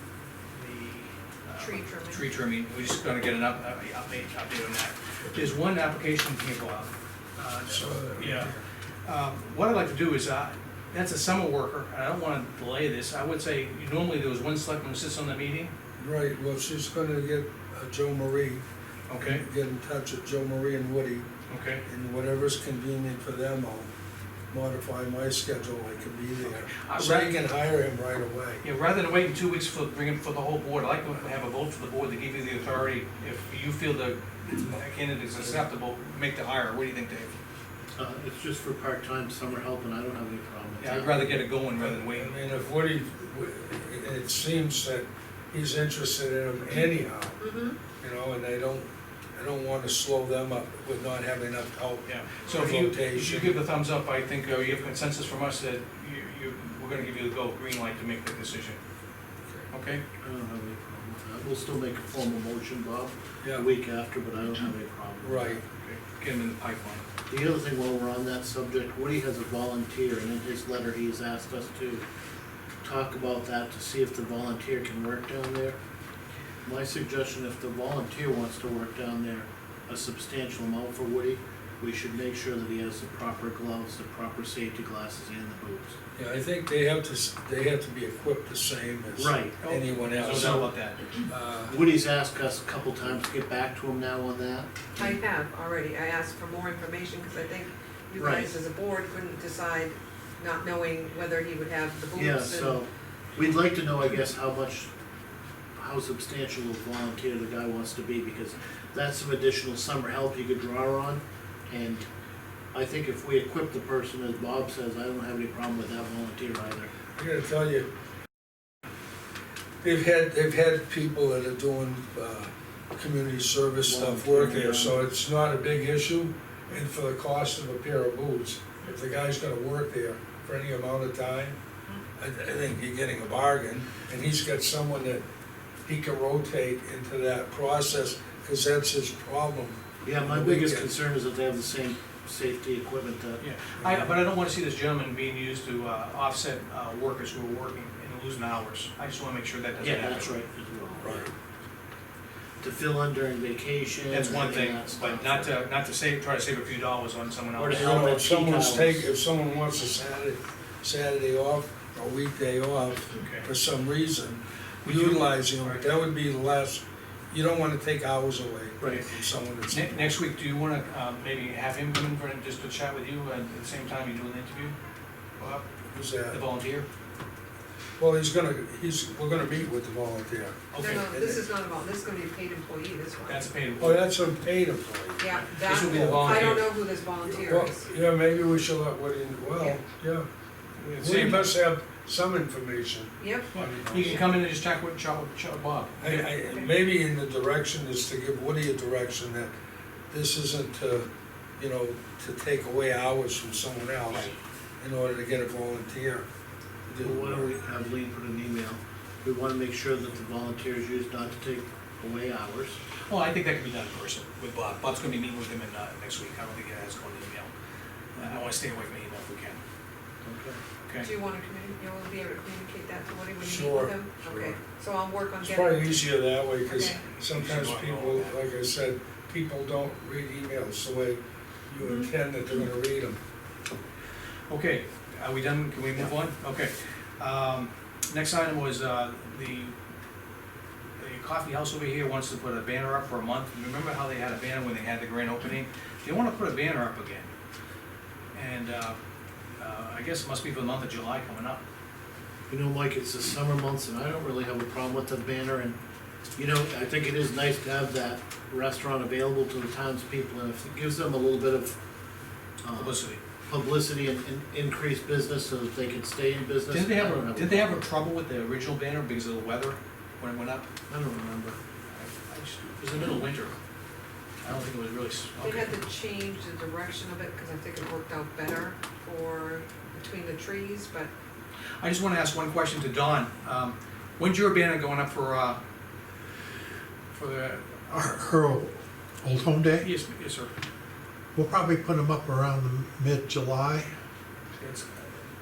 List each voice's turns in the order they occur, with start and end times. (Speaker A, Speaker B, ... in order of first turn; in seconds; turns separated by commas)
Speaker A: 0.5-8.5, Speaker B: 1.6-2.2, Speaker C: 7.7-8.6, Speaker A: 9.1-15.7, Speaker C: 16.0-18.6, Speaker A: 19.1-19.4, Speaker C: 19.2-21.3, Speaker A: 21.5-21.8, Speaker C: 21.9-23.9, Speaker C: 24.5-28.6, Speaker A: 26.4-27.4, Speaker A: 28.6-37.3, Speaker D: 38.0-41.4, Speaker A: 40.8-42.4, Speaker C: 41.8-47.5, Speaker B: 47.4-47.8, Speaker C: 48.0-53.6, Speaker A: 52.0-58.8, Speaker A: 59.7-60.0, Speaker D: 60.2-65.6, Speaker C: 65.2-65.6, Speaker A: 65.8-67.0, Speaker D: 67.3-72.0, Speaker D: 72.8-75.8, Speaker D: 76.6-86.0, Speaker C: 86.2-90.7, Speaker D: 89.2-89.5, Speaker A: 89.6-91.0, Speaker C: 91.3-91.8, Speaker D: 91.7-95.2, Speaker B: 95.0-102.8, Speaker D: 98.2-98.5, Speaker D: 102.2-104.9, Speaker D: 105.8-112.1, Speaker D: 112.7-116.9, Speaker C: 117.2-117.9, Speaker C: 119.8-131.6, Speaker D: 123.9-125.0, Speaker C: 132.2-135.2, Speaker C: 135.9-140.9, Speaker D: 140.1-143.4, Speaker A: 143.4-150.4, Speaker C: 143.8-144.1, Speaker D: 149.8-151.3, Speaker D: 152.6-155.6, Speaker A: 154.1-158.1, Speaker D: 157.6-159.1, Speaker C: 157.7-170.1, Speaker A: 163.2-163.5, Speaker A: 164.8-165.9, Speaker A: 169.7-174.8, Speaker A: 175.4-175.7, Speaker C: 175.9-176.4, Speaker A: 176.3-176.9, Speaker C: 178.0-180.6, Speaker A: 180.7-181.4, Speaker B: 180.8-183.5, Speaker A: 183.3-184.0, Speaker C: 183.8-190.3, Speaker B: 185.2-187.8, Speaker A: 185.4-186.7, Speaker A: 190.8-191.6, Speaker C: 191.0-194.2, Speaker B: 193.2-193.5, Speaker A: 193.5-196.3, Speaker C: 196.0-199.5, Speaker C: 200.1-206.3, Speaker C: 206.9-207.5, Speaker D: 207.0-212.8, Speaker A: 213.1-217.5, Speaker A: 218.2-219.6, Speaker D: 220.2-220.6, Speaker A: 220.8-221.1, Speaker B: 221.0-226.1, Speaker C: 223.4-224.6, Speaker C: 225.4-233.2, Speaker B: 226.7-227.0, Speaker A: 227.2-228.4, Speaker B: 231.8-232.1, Speaker A: 234.5-239.8, Speaker A: 241.0-247.3, Speaker A: 248.3-249.0, Speaker A: 249.6-251.6, Speaker D: 252.5-255.8, Speaker D: 256.4-261.8, Speaker D: 262.6-267.8, Speaker A: 262.8-263.2, Speaker A: 266.7-270.7, Speaker D: 270.9-271.6, Speaker A: 271.9-273.6, Speaker A: 274.4-275.7, Speaker B: 275.4-281.1, Speaker A: 281.8-285.6, Speaker A: 287.1-288.0, Speaker E: 287.9-289.9, Speaker A: 289.8-290.5, Speaker E: 291.4-293.9, Speaker A: 294.6-295.1